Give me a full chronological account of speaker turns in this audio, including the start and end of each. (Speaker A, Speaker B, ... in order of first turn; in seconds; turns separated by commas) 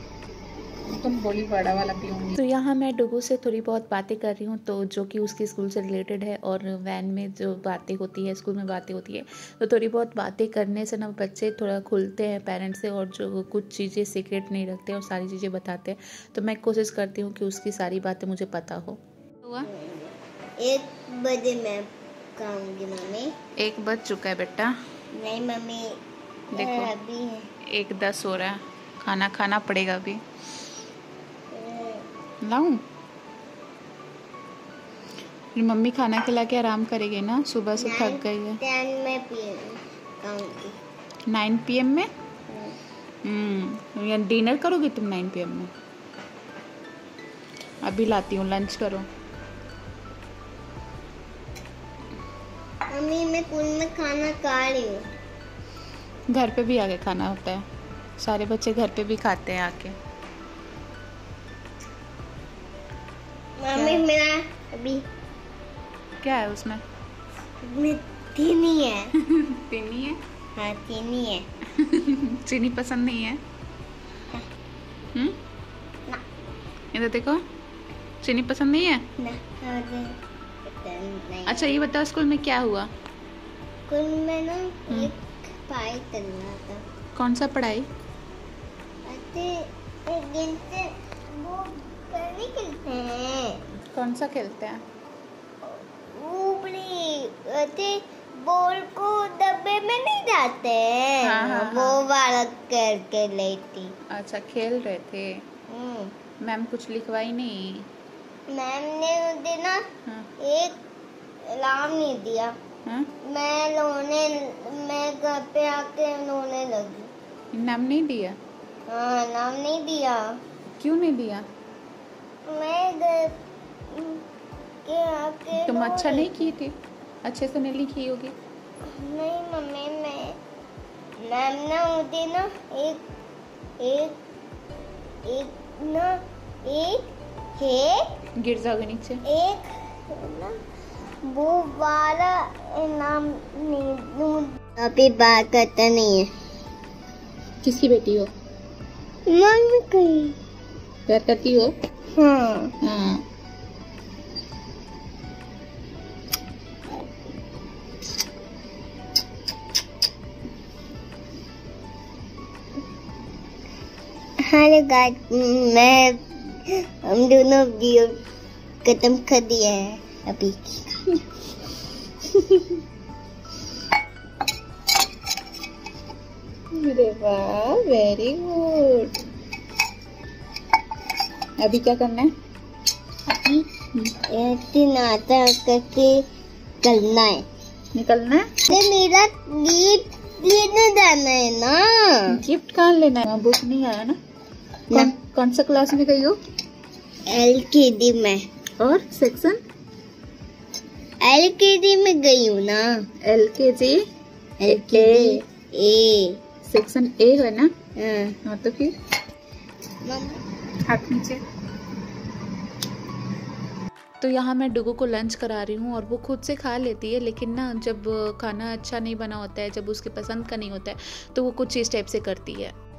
Speaker A: 0.9-19.7, Speaker B: 19.6-23.3, Speaker A: 23.6-24.7, Speaker B: 25.1-26.0, Speaker A: 26.5-26.9, Speaker B: 26.5-27.4, Speaker A: 27.7-30.2, Speaker B: 31.5-32.1, Speaker A: 32.4-32.8, Speaker A: 35.5-38.6, Speaker B: 37.8-40.8, Speaker A: 41.3-42.1, Speaker B: 42.5-42.8, Speaker A: 43.2-45.7, Speaker A: 47.8-49.0, Speaker B: 52.9-55.0, Speaker A: 56.3-57.6, Speaker A: 58.2-59.9, Speaker B: 63.6-65.0, Speaker A: 63.7-64.0, Speaker A: 66.2-66.8, Speaker B: 67.6-69.1, Speaker A: 69.2-70.2, Speaker B: 70.5-71.5, Speaker A: 71.8-73.4, Speaker A: 76.9-77.4, Speaker A: 78.2-79.0, Speaker B: 79.2-80.1, Speaker B: 80.6-81.7, Speaker A: 81.5-82.9, Speaker B: 83.9-86.8, Speaker A: 87.2-87.9, Speaker B: 89.0-93.6, Speaker A: 93.9-94.8, Speaker B: 95.6-103.9, Speaker A: 101.2-102.0, Speaker A: 104.1-105.4, Speaker B: 105.7-106.1, Speaker A: 106.4-107.9, Speaker B: 108.5-109.8, Speaker B: 110.4-110.8, Speaker B: 111.4-112.5, Speaker B: 113.2-117.1, Speaker A: 117.5-118.4, Speaker B: 118.9-120.3, Speaker A: 120.8-121.4, Speaker B: 122.5-123.4, Speaker B: 123.9-124.2, Speaker B: 124.8-126.5, Speaker A: 125.5-128.3, Speaker B: 128.9-130.4, Speaker B: 131.2-133.0, Speaker B: 133.8-134.2, Speaker B: 135.2-138.0, Speaker A: 138.4-139.2, Speaker B: 139.2-140.5, Speaker B: 141.2-146.3, Speaker A: 147.6-148.3, Speaker B: 149.3-150.3, Speaker A: 151.1-151.7, Speaker B: 152.2-152.7, Speaker A: 152.8-153.2, Speaker B: 164.5-168.2, Speaker B: 168.8-170.9, Speaker A: 176.7-179.1, Speaker A: 181.6-182.3, Speaker A: 183.3-184.1, Speaker B: 184.3-186.2, Speaker B: 186.8-187.4, Speaker A: 187.9-188.4, Speaker B: 188.7-192.3, Speaker A: 192.3-194.2, Speaker A: 194.9-196.4, Speaker B: 197.3-198.4, Speaker A: 198.8-199.6, Speaker B: 201.2-202.9, Speaker A: 203.2-204.0, Speaker B: 204.6-206.4, Speaker A: 204.7-205.4, Speaker A: 206.7-207.7, Speaker B: 208.0-208.3, Speaker A: 208.4-208.9, Speaker B: 210.0-210.4, Speaker A: 210.9-211.4, Speaker A: 214.2-222.7